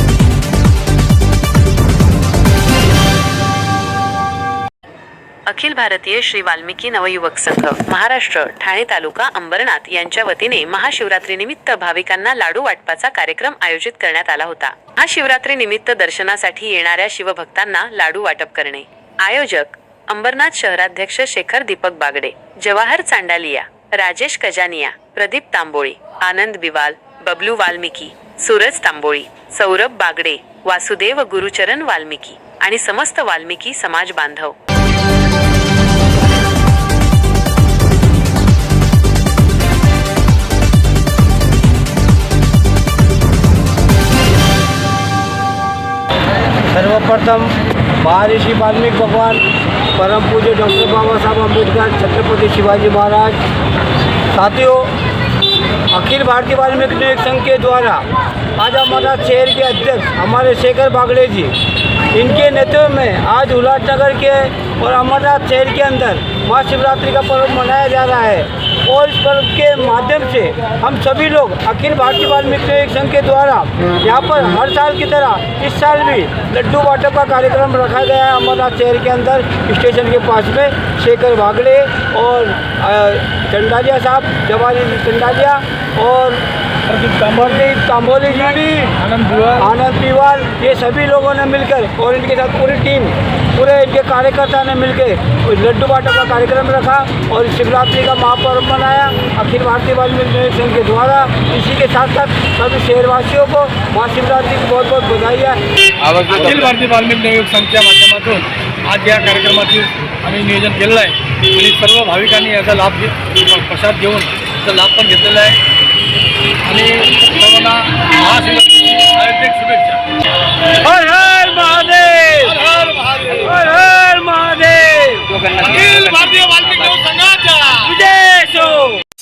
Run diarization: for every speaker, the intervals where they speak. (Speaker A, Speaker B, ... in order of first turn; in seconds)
Speaker A: 5.5-34.5
Speaker B: 46.7-53.4, 54.3-54.9, 55.9-58.0, 58.6-61.6, 62.1-86.5, 87.3-89.0, 89.6-105.6, 120.7-126.0, 127.8-129.0
Speaker C: 86.9-87.7, 89.0-89.7, 106.2-115.6, 116.6-120.0, 125.6-127.8